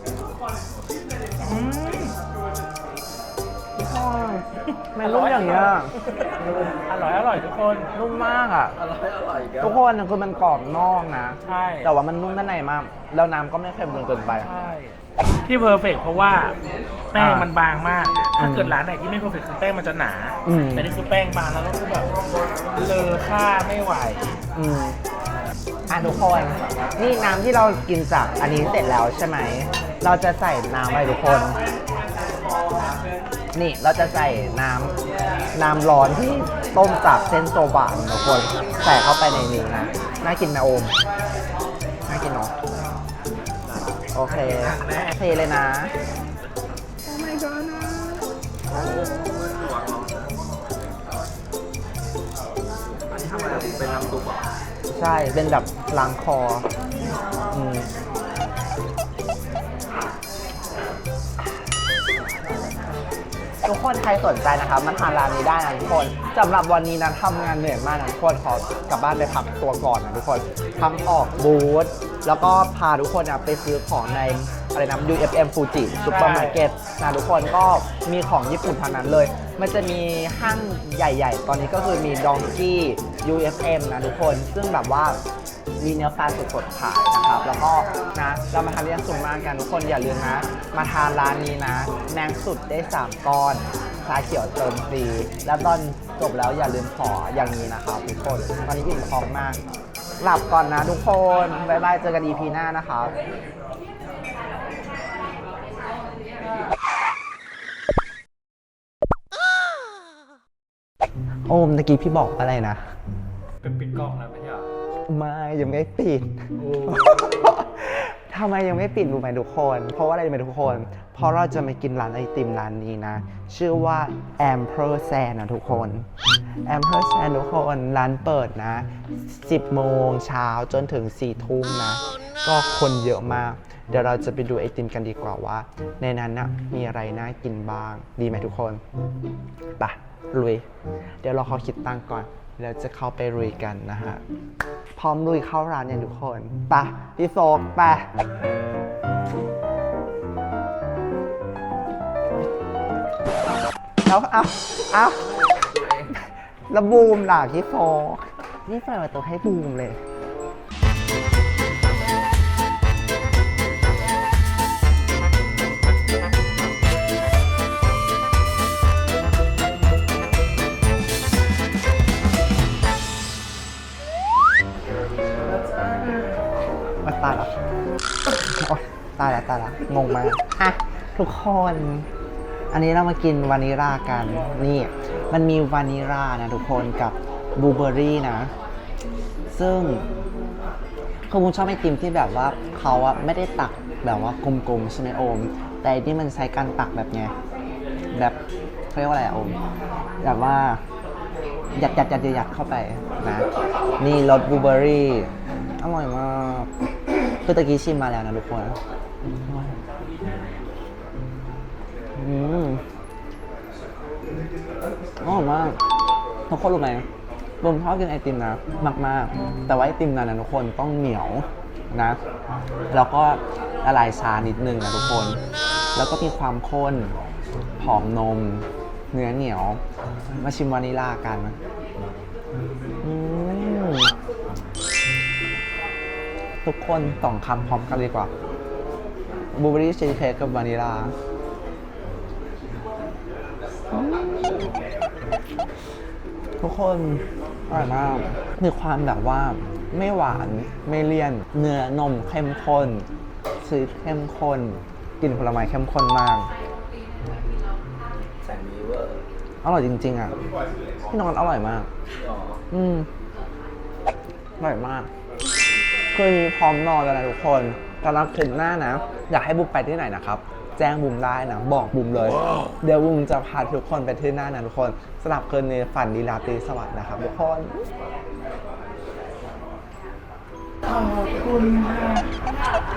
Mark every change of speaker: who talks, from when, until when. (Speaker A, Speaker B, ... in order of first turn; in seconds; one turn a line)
Speaker A: 1.4-2.1
Speaker B: 3.8-5.9
Speaker A: 5.0-6.3
Speaker A: 6.9-7.9
Speaker B: 7.9-8.8
Speaker C: 8.8-9.8
Speaker B: 9.6-14.5
Speaker A: 11.4-11.9
Speaker A: 14.3-16.6
Speaker A: 17.1-24.4
Speaker B: 17.1-17.5
Speaker B: 18.4-18.8
Speaker B: 20.4-20.9
Speaker B: 24.5-24.9
Speaker B: 25.9-31.6
Speaker B: 33.5-34.9
Speaker B: 35.5-40.9
Speaker B: 42.1-42.5
Speaker C: 43.6-45.2
Speaker B: 44.1-45.9
Speaker B: 47.0-48.2
Speaker C: 48.7-50.3
Speaker C: 52.9-54.5
Speaker B: 54.9-56.7
Speaker B: 57.5-57.9
Speaker B: 63.6-85.2
Speaker A: 76.0-76.6
Speaker B: 85.8-99.6
Speaker B: 100.2-103.1
Speaker B: 111.5-112.9
Speaker D: 113.6-114.7
Speaker B: 115.1-126.1
Speaker D: 116.6-117.8
Speaker B: 126.7-138.8
Speaker B: 139.8-140.6
Speaker B: 141.2-144.2
Speaker B: 144.9-148.1
Speaker B: 154.1-160.0
Speaker B: 177.0-177.5
Speaker B: 178.4-182.1
Speaker B: 182.7-188.5
Speaker B: 189.5-190.1
Speaker B: 191.3-197.3
Speaker B: 198.1-198.4
Speaker B: 198.9-199.6
Speaker B: 200.2-200.8
Speaker B: 201.8-203.5
Speaker B: 204.0-206.7
Speaker B: 207.4-208.8
Speaker B: 212.2-212.8
Speaker B: 215.2-215.8
Speaker B: 216.5-217.0
Speaker B: 217.6-222.2
Speaker B: 222.9-225.4
Speaker B: 225.9-227.1
Speaker B: 227.8-229.8
Speaker B: 230.3-231.6
Speaker B: 233.0-234.1
Speaker B: 236.6-238.3
Speaker B: 239.5-241.1
Speaker B: 243.9-244.6
Speaker B: 246.6-253.1
Speaker B: 253.6-256.5
Speaker C: 258.4-259.2
Speaker B: 259.6-260.4
Speaker B: 261.1-261.9
Speaker C: 262.2-262.6
Speaker B: 262.7-263.1
Speaker B: 264.6-265.1
Speaker B: 266.1-277.7
Speaker A: 280.9-282.2